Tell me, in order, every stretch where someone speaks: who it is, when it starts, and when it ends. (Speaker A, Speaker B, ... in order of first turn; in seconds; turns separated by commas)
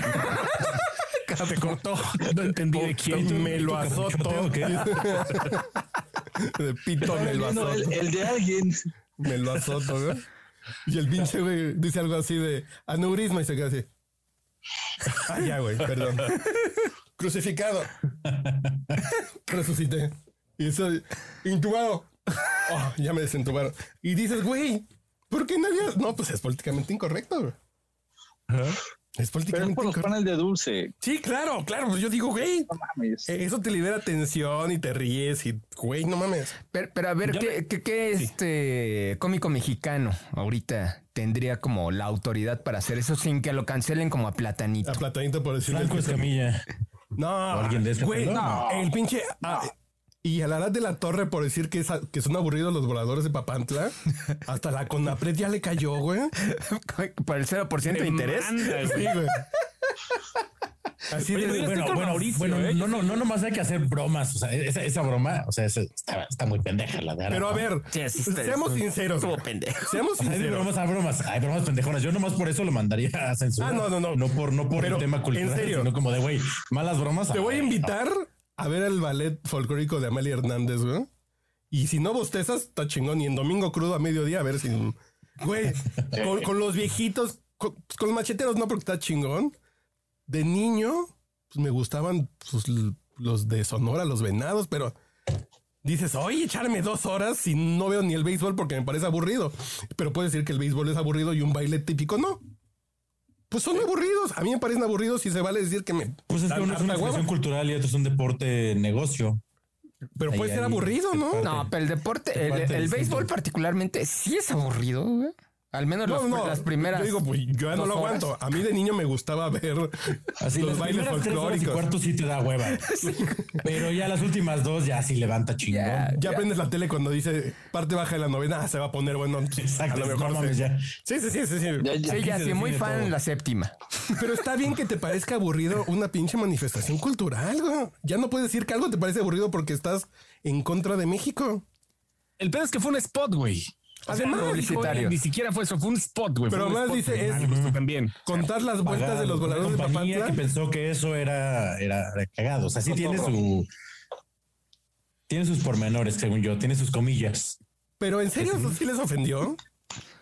Speaker A: 0.1-1.8, Speaker B: 1.4-3.5, Speaker C: 2.8-5.7, Speaker D: 3.1-5.2, Speaker C: 6.3-8.1, Speaker E: 7.0-8.8, Speaker C: 9.2-10.2, Speaker C: 10.8-13.9, Speaker C: 15.1-16.4, Speaker C: 17.2-17.9, Speaker D: 18.3-19.0, Speaker C: 19.4-27.6, Speaker B: 28.5-28.8, Speaker C: 29.2-30.1, Speaker E: 29.5-30.9, Speaker C: 31.0-32.7, Speaker E: 32.7-33.3, Speaker C: 33.2-36.5, Speaker A: 36.7-45.0, Speaker B: 37.3-37.6, Speaker C: 44.8-46.3, Speaker D: 45.6-46.7, Speaker C: 47.1-56.3, Speaker D: 47.5-48.6, Speaker E: 48.3-48.9, Speaker A: 56.4-58.7, Speaker B: 57.8-59.1, Speaker C: 58.8-59.4, Speaker C: 61.1-61.8, Speaker B: 61.3-63.2, Speaker D: 61.5-67.7, Speaker C: 67.3-70.7, Speaker A: 67.9-70.0, Speaker D: 70.2-77.9, Speaker C: 73.6-75.9, Speaker C: 77.3-81.1, Speaker C: 81.7-89.5, Speaker C: 90.3-95.0, Speaker C: 95.8-102.4, Speaker C: 103.5-107.3, Speaker D: 106.3-109.4, Speaker C: 110.2-111.5, Speaker D: 110.3-111.7, Speaker A: 111.4-118.3, Speaker D: 112.3-113.3, Speaker C: 116.0-121.9, Speaker D: 120.4-122.9, Speaker A: 122.8-123.6, Speaker D: 123.6-126.2, Speaker A: 125.7-126.5, Speaker C: 126.2-132.0, Speaker D: 129.6-130.9, Speaker E: 131.8-132.2, Speaker A: 132.0-133.7, Speaker D: 132.1-133.1, Speaker C: 134.1-141.6, Speaker B: 142.4-148.3, Speaker C: 144.1-145.0, Speaker A: 144.1-145.2, Speaker C: 146.5-147.7, Speaker D: 147.2-147.8, Speaker C: 148.2-150.4, Speaker D: 148.8-153.7, Speaker D: 155.3-157.6, Speaker C: 158.0-159.6, Speaker D: 158.4-158.7